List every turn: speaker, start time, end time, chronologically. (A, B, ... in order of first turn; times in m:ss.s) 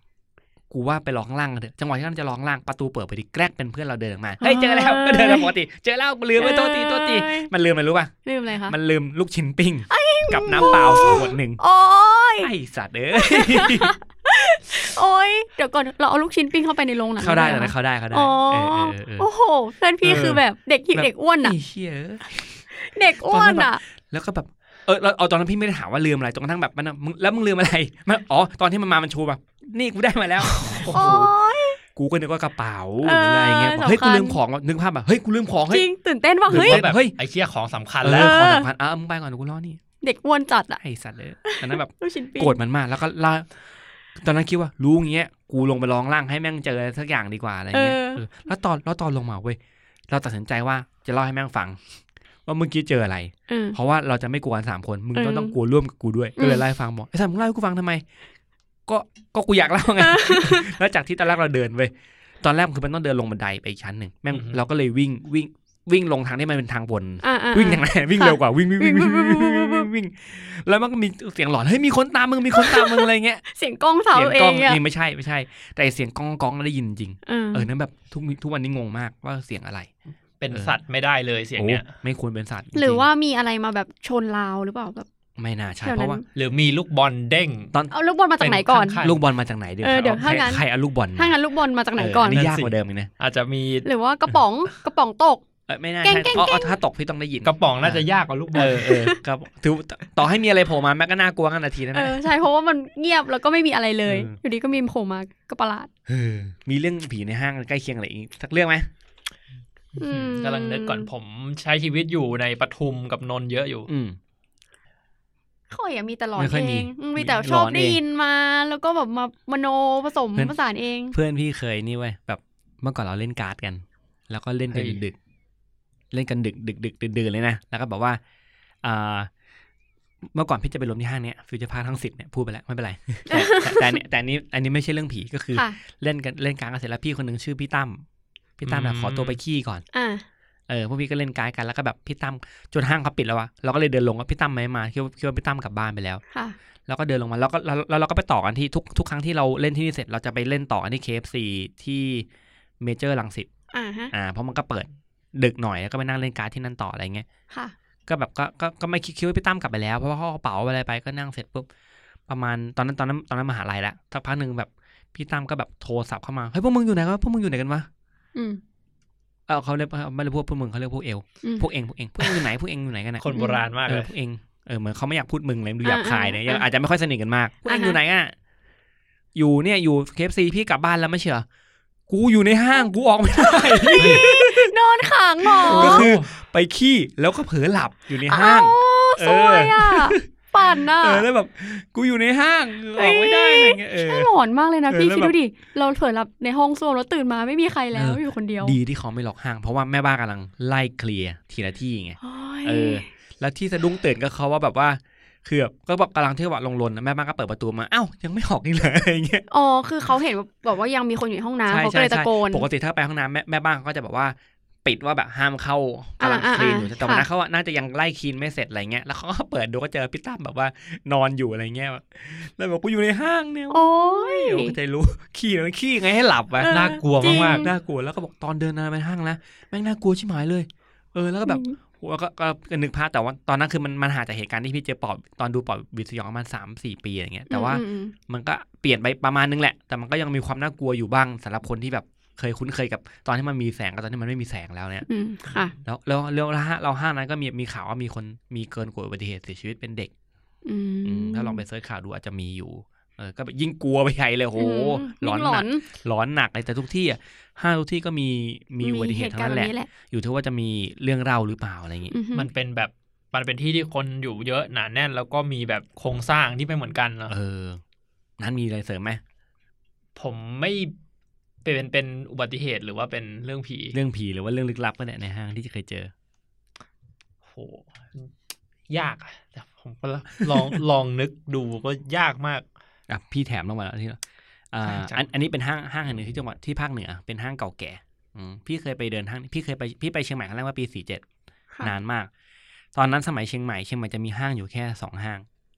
0:00.7-0:08.1 A
0:04.4-0:05.5 B
0:06.4-0:07.5 B
0:08.2-0:08.8 B
0:08.7-0:11.6 A
0:09.9-0:12.5 B
0:12.4-0:13.9 A
0:13.1-0:21.6 B
0:17.2-0:19.3 A
0:20.0-0:20.4 A
0:20.9-0:22.6 A
0:22.8-0:23.8 B
0:23.2-0:31.3 A
0:30.8-0:31.8 B
0:31.9-0:35.9 A
0:33.0-0:34.4 B
0:35.7-0:36.9 B
0:36.5-0:37.1 A
0:36.5-0:38.4 C
0:38.0-0:39.8 A
0:38.1-0:38.7 B
0:40.0-0:40.8 B
0:40.8-0:43.5 A
0:41.4-0:42.5 B
0:44.2-0:49.6 A
0:47.7-0:48.2 B
0:50.1-0:51.8 A
0:52.4-0:58.0 A
0:53.5-0:53.8 B
0:55.1-0:55.6 B
0:56.4-0:56.6 B
0:58.9-1:13.4 A
1:00.0-1:00.7 B
1:04.3-1:04.6 C
1:07.2-1:09.9 B
1:12.6-1:14.8 B
1:14.1-1:19.9 A
1:17.3-1:17.7 B
1:20.4-1:21.9 C
1:21.6-1:23.1 A
1:22.7-1:25.1 B
1:25.4-1:26.2 A
1:25.8-1:26.3 B
1:26.4-1:27.7 C
1:27.9-1:29.0 B
1:28.4-1:29.2 C
1:29.0-1:31.3 A
1:29.8-1:30.6 B
1:31.2-1:32.4 B
1:32.0-1:33.1 A
1:32.3-1:33.9 C
1:33.8-1:35.4 B
1:35.7-1:42.2 A
1:36.0-1:36.8 B
1:37.4-1:39.0 C
1:38.6-1:39.2 B
1:41.9-1:45.9 B
1:44.1-1:44.4 A
1:46.1-1:48.9 A
1:50.0-1:51.1 B
1:50.0-1:53.9 C
1:53.9-1:54.2 A
1:55.7-2:01.2 B
1:56.4-1:58.0 A
2:01.1-2:05.2 A
2:04.7-2:05.0 C
2:06.1-2:08.2 A
2:08.8-2:09.3 A
2:10.3-2:18.0 A
2:13.3-2:14.0 B
2:18.6-2:19.9 A
2:18.6-2:19.4 C
2:19.9-2:20.2 B
2:20.7-2:26.2 A
2:26.9-2:32.3 A
2:32.8-2:33.5 A
2:33.7-2:34.1 B
2:34.1-2:37.3 A
2:38.1-2:41.7 A
2:42.3-2:47.9 A
2:48.4-2:48.6 B
2:49.5-2:58.4 A
2:53.2-2:54.1 C
2:53.3-2:53.6 B
2:55.8-2:56.6 B
2:57.7-2:58.0 B
2:59.4-3:01.4 A
3:02.1-3:04.7 A
3:03.4-3:06.1 B
3:04.0-3:04.2 C
3:05.5-3:14.3 A
3:05.6-3:06.3 C
3:08.3-3:11.3 B
3:13.0-3:18.8 B
3:14.9-3:15.4 A
3:17.9-3:29.4 A
3:22.2-3:23.1 B
3:29.5-3:32.7 B
3:31.7-4:05.1 A
3:36.2-3:37.3 B
3:43.7-3:44.8 B
3:46.6-3:47.7 B
3:46.7-3:47.7 C
3:51.4-3:51.8 B
3:57.5-3:58.1 B
4:05.1-4:05.7 B
4:05.8-4:10.1 A
4:10.6-4:11.6 B
4:11.0-4:22.1 A
4:14.6-4:15.8 B
4:18.8-4:19.9 B
4:22.1-4:22.5 B
4:22.3-4:27.3 C
4:27.3-4:27.8 A
4:28.4-4:29.2 A
4:30.2-4:30.9 C
4:31.6-4:34.0 C
4:33.9-4:36.1 A
4:37.4-4:38.3 C
4:38.9-4:42.6 C
4:43.1-4:44.2 A
4:44.7-4:51.2 A
4:44.8-4:45.2 C
4:51.8-4:52.3 A
4:53.0-4:55.4 A